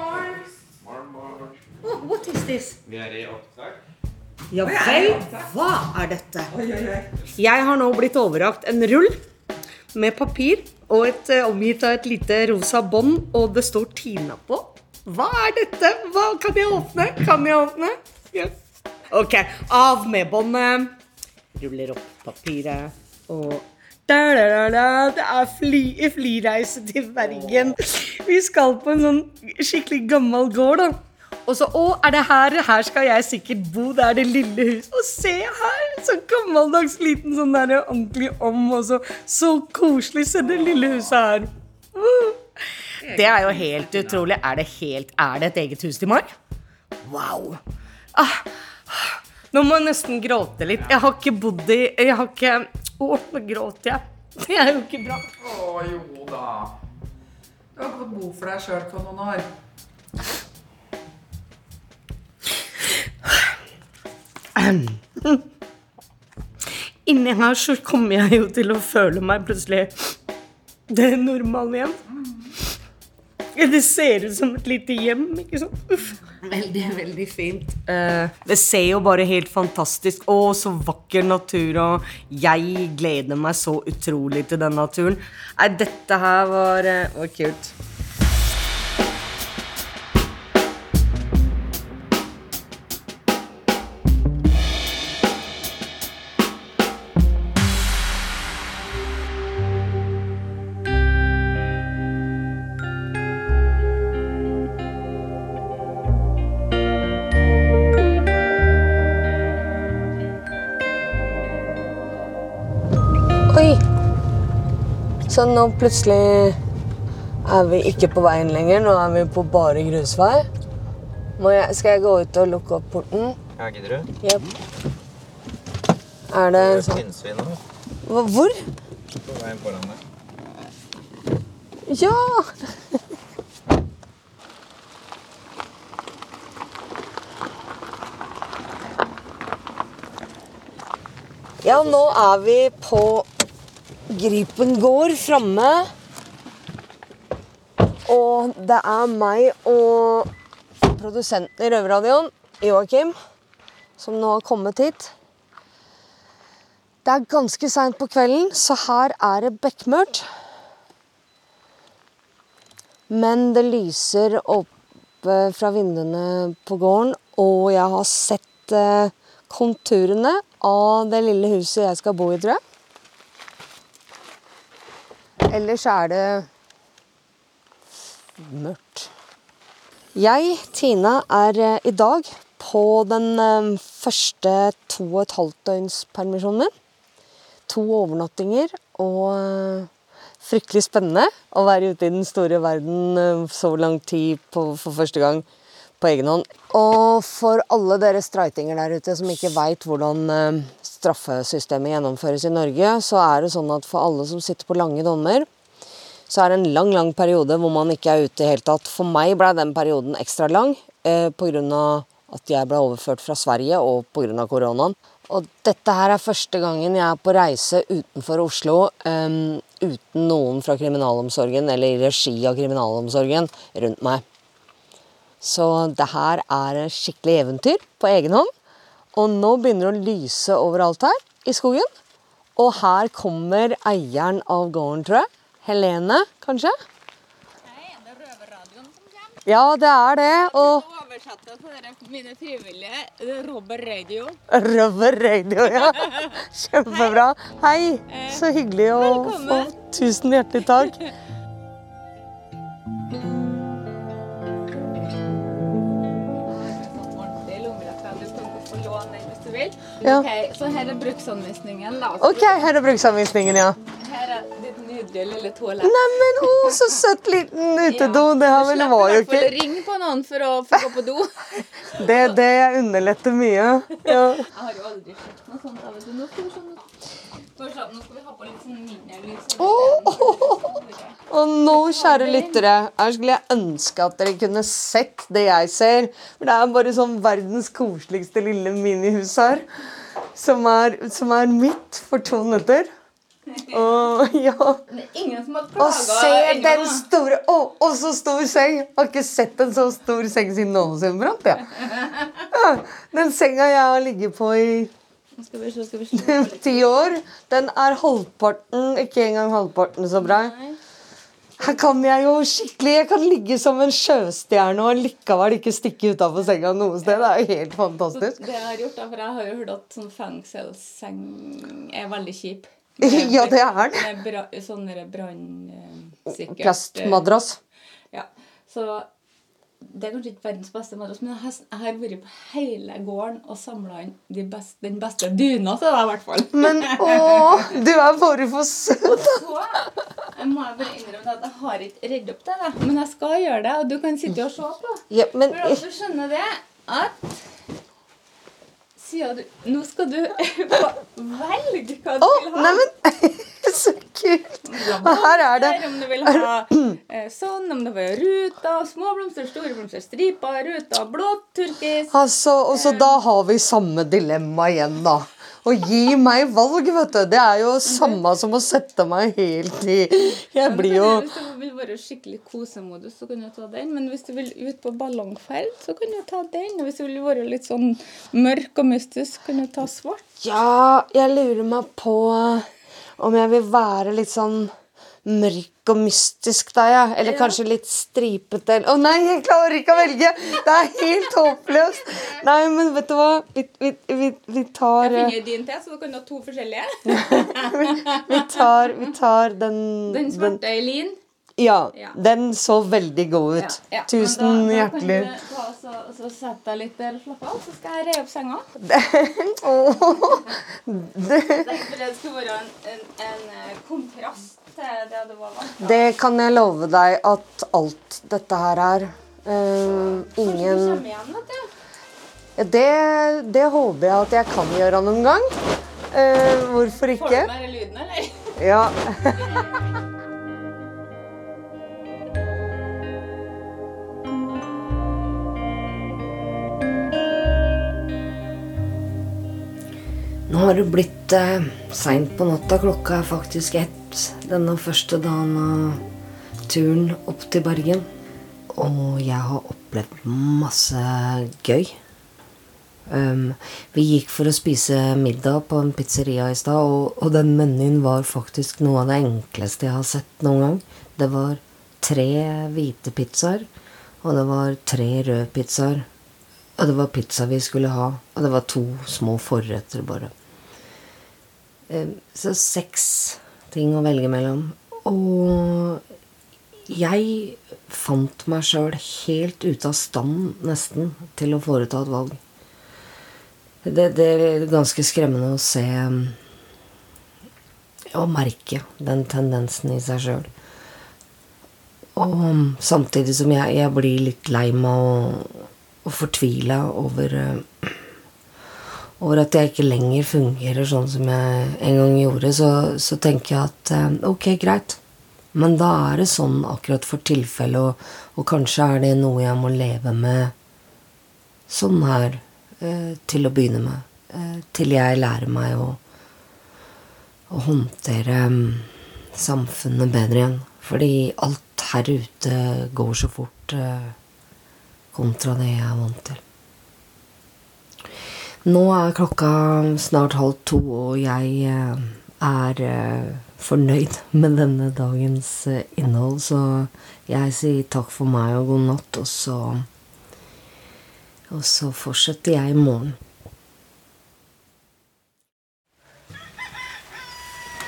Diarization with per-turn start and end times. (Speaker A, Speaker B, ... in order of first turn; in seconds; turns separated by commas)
Speaker A: 0.9-1.3, Speaker B: 1.8-2.8, Speaker A: 2.9-3.7, Speaker B: 4.5-6.5, Speaker C: 4.7-5.4, Speaker C: 6.6-7.2, Speaker B: 7.3-9.2, Speaker B: 9.9-18.5, Speaker B: 19.1-20.9, Speaker B: 21.6-42.5, Speaker B: 43.0-46.3, Speaker D: 43.0-43.6, Speaker B: 47.0-47.6, Speaker B: 48.1-55.3, Speaker C: 55.4-56.7, Speaker C: 57.8-59.5, Speaker B: 64.5-65.4, Speaker B: 67.0-70.1, Speaker B: 70.9-72.0, Speaker B: 73.5-87.8, Speaker B: 113.5-113.8, Speaker B: 115.3-116.6, Speaker B: 117.5-120.5, Speaker B: 121.4-123.4, Speaker A: 123.6-124.1, Speaker B: 124.2-124.5, Speaker B: 126.3-127.0, Speaker A: 126.6-127.6, Speaker B: 128.0-128.6, Speaker A: 129.2-130.0, Speaker B: 131.9-133.0, Speaker B: 141.6-143.3, Speaker B: 144.1-145.9, Speaker B: 148.1-153.2, Speaker B: 154.0-155.1, Speaker B: 157.0-160.2, Speaker B: 163.1-164.7, Speaker B: 165.2-172.6, Speaker B: 175.5-176.5, Speaker B: 178.4-179.1, Speaker B: 180.2-186.7, Speaker B: 187.7-189.9, Speaker B: 190.4-195.4, Speaker B: 196.0-205.5, Speaker B: 206.3-224.2, Speaker B: 225.4-228.5, Speaker B: 229.1-231.9, Speaker B: 232.6-236.7, Speaker D: 237.7-239.4, Speaker B: 239.5-240.9, Speaker D: 240.4-244.4, Speaker B: 244.5-251.0, Speaker D: 246.9-247.2, Speaker D: 248.1-248.4, Speaker D: 248.9-249.8, Speaker D: 250.8-251.1, Speaker D: 256.5-262.6, Speaker B: 260.0-260.3, Speaker B: 262.2-263.8, Speaker D: 264.0-266.9, Speaker B: 265.8-269.6, Speaker D: 267.8-272.2, Speaker B: 271.9-274.5, Speaker D: 274.0-276.9, Speaker D: 277.6-282.6, Speaker B: 279.6-280.8, Speaker B: 281.3-289.7, Speaker B: 290.3-292.9, Speaker B: 293.7-294.8, Speaker D: 294.9-297.1, Speaker B: 295.8-304.9, Speaker D: 305.4-306.9, Speaker B: 306.1-310.5, Speaker D: 310.2-310.8, Speaker B: 311.6-318.4, Speaker D: 317.0-317.3, Speaker D: 318.1-327.2, Speaker B: 323.0-324.1, Speaker B: 326.3-327.6, Speaker D: 328.1-329.1, Speaker D: 329.8-337.8, Speaker B: 336.5-339.4, Speaker D: 339.1-347.4, Speaker B: 345.1-345.8, Speaker D: 349.0-352.8, Speaker B: 352.2-357.0, Speaker D: 354.6-362.1, Speaker B: 362.1-371.3, Speaker D: 362.7-363.2, Speaker D: 370.6-380.2, Speaker B: 380.4-382.7, Speaker B: 383.2-384.7, Speaker B: 385.2-395.4, Speaker D: 387.2-387.5, Speaker D: 395.0-398.6, Speaker B: 397.1-400.6, Speaker D: 400.1-401.2, Speaker B: 401.6-405.3, Speaker D: 403.6-408.6, Speaker B: 408.8-411.7, Speaker D: 411.5-416.0, Speaker B: 415.8-421.0, Speaker D: 420.4-421.7, Speaker B: 422.6-425.5, Speaker B: 426.1-427.5, Speaker D: 427.0-428.5, Speaker B: 428.6-429.6, Speaker B: 440.5-446.0, Speaker B: 446.7-448.1, Speaker B: 448.7-452.0, Speaker B: 453.1-463.7, Speaker B: 464.2-466.1, Speaker B: 466.8-470.3, Speaker B: 471.9-476.0, Speaker B: 476.9-482.4, Speaker B: 483.8-486.4, Speaker B: 488.1-490.5, Speaker B: 492.2-498.0, Speaker B: 499.2-505.0, Speaker B: 505.5-510.5, Speaker B: 511.7-516.0, Speaker B: 517.5-524.2, Speaker B: 525.1-526.4, Speaker B: 528.6-539.9, Speaker B: 541.5-543.2